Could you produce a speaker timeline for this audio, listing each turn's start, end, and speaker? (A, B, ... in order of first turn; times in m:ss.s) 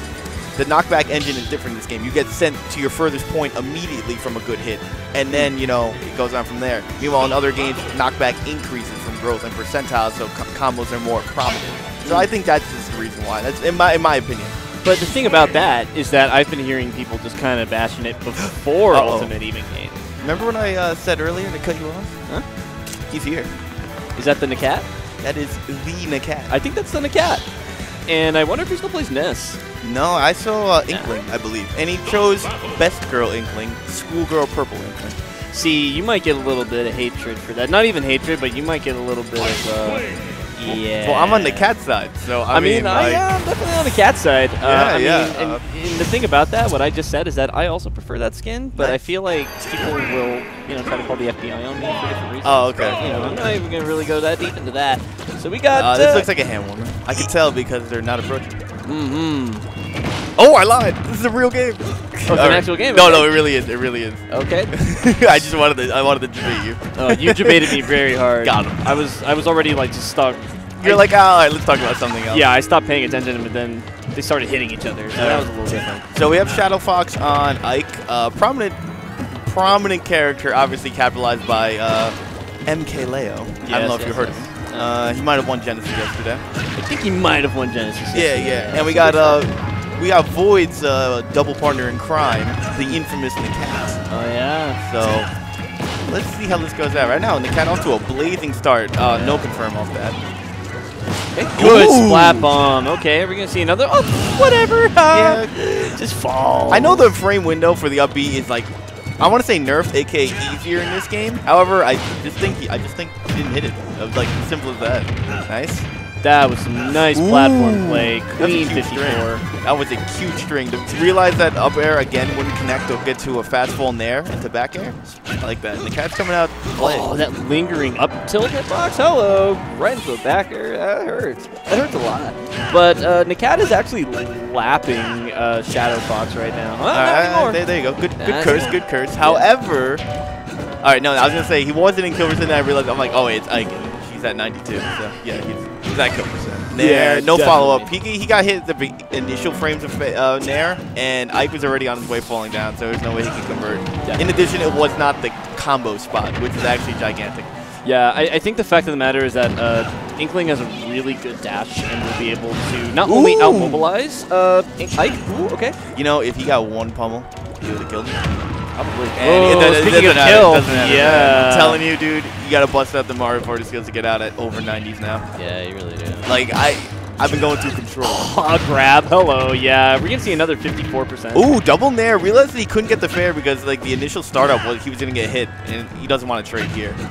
0:00.5-0:14.6 A
0:12.0-0:12.3 B
0:14.8-0:20.0 B
0:18.9-0:19.3 A
0:20.2-0:22.2 A
0:23.1-0:23.5 A
0:24.2-0:24.9 B
0:25.2-0:26.5 A
0:26.5-0:27.5 B
0:28.0-0:29.6 B
0:29.8-0:35.2 A
0:30.9-0:31.2 B
0:35.5-0:41.7 B
0:40.6-0:43.2 A
0:42.5-0:56.3 B
0:44.6-0:45.6 A
0:52.4-0:53.0 A
0:55.7-0:58.6 A
0:58.8-0:59.7 B
1:00.4-1:07.8 A
1:02.3-1:03.4 B
1:04.3-1:04.7 B
1:07.0-1:11.1 B
1:08.4-1:08.8 A
1:10.8-1:12.5 A
1:12.3-1:16.6 B
1:15.2-1:26.4 A
1:23.6-1:24.9 B
1:26.8-1:29.4 B
1:28.1-1:34.0 A
1:34.1-1:34.8 B
1:34.8-1:35.3 A
1:36.0-1:40.2 A
1:39.1-1:39.4 B
1:41.3-1:47.1 B
1:41.6-1:42.5 A
1:45.1-1:45.5 A
1:46.7-1:55.9 A
1:56.2-1:59.4 B
1:57.1-2:07.1 A
2:06.8-2:17.6 B
2:16.9-2:20.0 A
2:18.2-2:19.5 B
2:20.8-2:37.5 A
2:26.7-2:27.9 B
2:37.8-2:45.8 B
2:43.0-2:43.8 A
2:45.9-2:48.2 A
2:48.8-2:51.8 B
2:49.1-2:55.2 A
2:55.3-2:56.3 B
2:56.2-2:58.3 A
2:58.1-3:01.5 B
3:01.3-3:07.0 A